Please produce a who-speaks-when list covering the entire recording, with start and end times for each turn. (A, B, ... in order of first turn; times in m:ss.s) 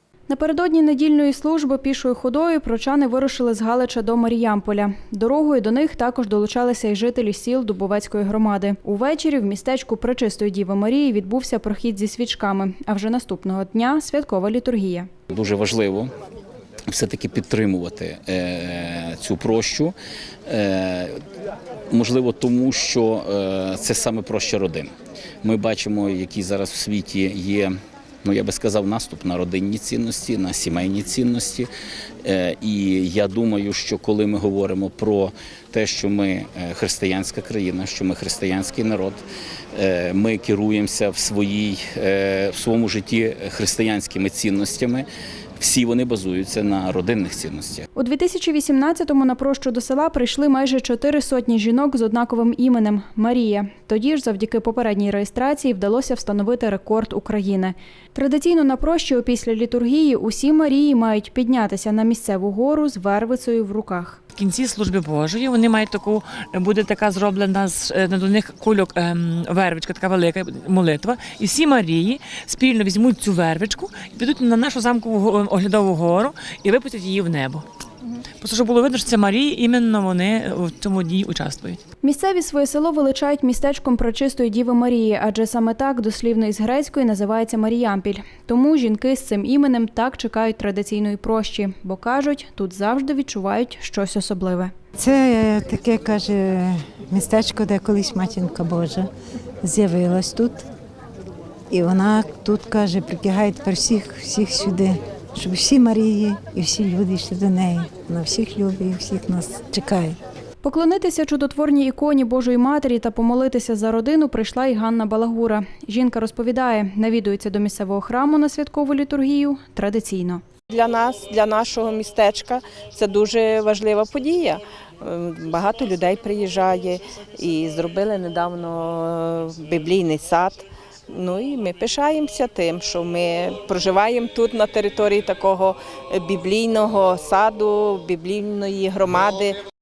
0:00.3-0:15.1 A
0:15.3-0:16.1 B
0:16.9-0:19.9 B
0:20.5-0:21.2 B
0:21.9-0:24.9 B
0:25.4-0:27.7 B
0:28.2-0:31.7 B
0:32.2-0:39.2 B
0:39.8-0:45.1 B
0:45.6-0:47.9 B
0:48.0-1:04.2 A
1:04.4-1:17.6 C
1:18.4-1:21.8 C
1:22.0-1:34.7 A
1:35.0-1:39.1 D
1:39.6-1:40.7 D
1:41.7-1:50.2 D
1:50.6-2:00.4 A
2:00.7-2:19.6 E